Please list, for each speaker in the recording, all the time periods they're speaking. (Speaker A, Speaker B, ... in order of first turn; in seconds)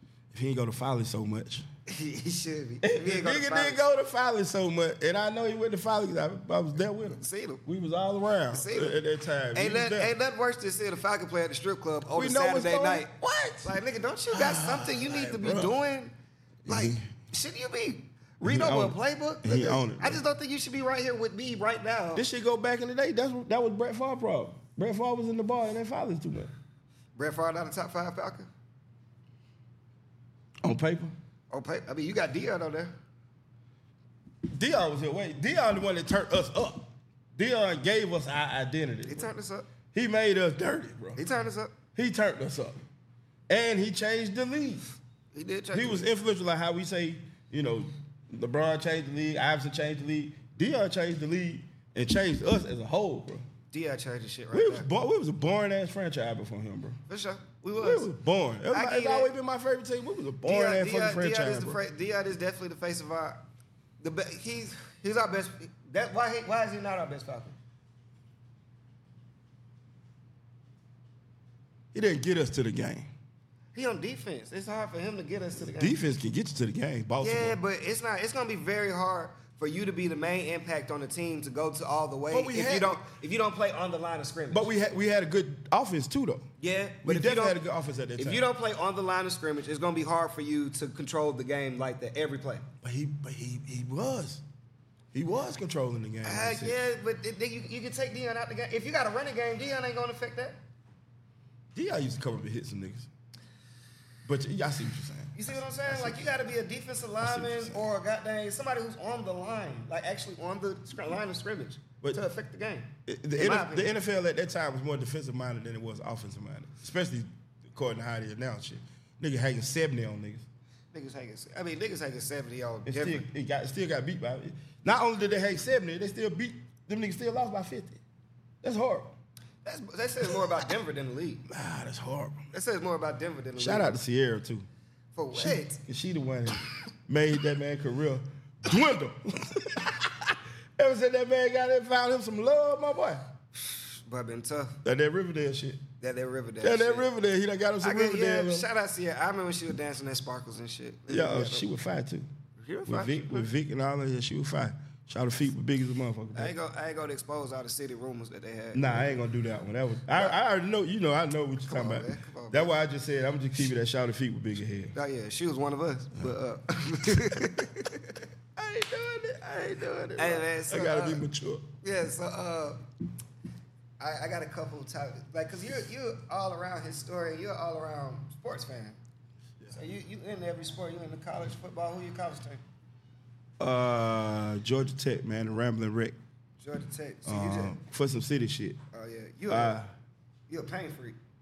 Speaker A: 0.3-1.7, 2.8-10.1, 12.1-13.7, 14.3-15.7, 16.7-17.0, 18.4-20.2, 22.1-26.5, 30.6-31.1, 34.5-39.3, 39.9-41.2, 42.0-42.8, 43.5-44.8, 45.7-53.5, 54.5-57.0, 57.8-61.8, 71.9-73.1, 75.6-77.6, 82.3-83.0, 84.5-86.5, 87.0-88.5, 92.8-94.4, 95.1-96.8, 101.8-103.1, 104.2-106.3, 107.2-107.8, 113.1-120.5, 122.9-128.0, 128.6-129.1, 131.5-132.4, 133.6-134.7, 135.3-143.2, 144.8-145.8, 146.6-148.7, 151.1-152.3, 152.9-156.5, 158.7-164.9, 168.6-171.7, 183.6-186.2, 187.3-188.8, 189.5-189.9
Speaker B: 1.9-3.8, 7.2-7.6, 8.5-9.0, 9.5-13.1, 13.6-16.1, 16.7-22.2, 27.2-28.5, 31.5-32.9, 39.1-39.7, 41.2-41.7, 45.3-46.1, 53.7-54.9, 57.1-58.1, 58.7-59.3, 60.5-63.4, 64.0-67.5, 73.7-76.0, 77.2-84.7, 86.6-87.6, 88.2-92.7, 96.2-100.6, 105.3-113.9, 120.9-123.3, 129.7-131.4, 132.5-134.0, 135.2-135.8, 143.9-144.8, 146.0-147.1, 147.8-151.7, 152.6-153.5, 156.3-159.2, 161.7-162.7, 164.9-168.2, 170.2-171.2, 171.8-172.8, 174.0-179.0, 179.7-182.6, 186.6-187.8, 188.9-189.8, 190.5-191.2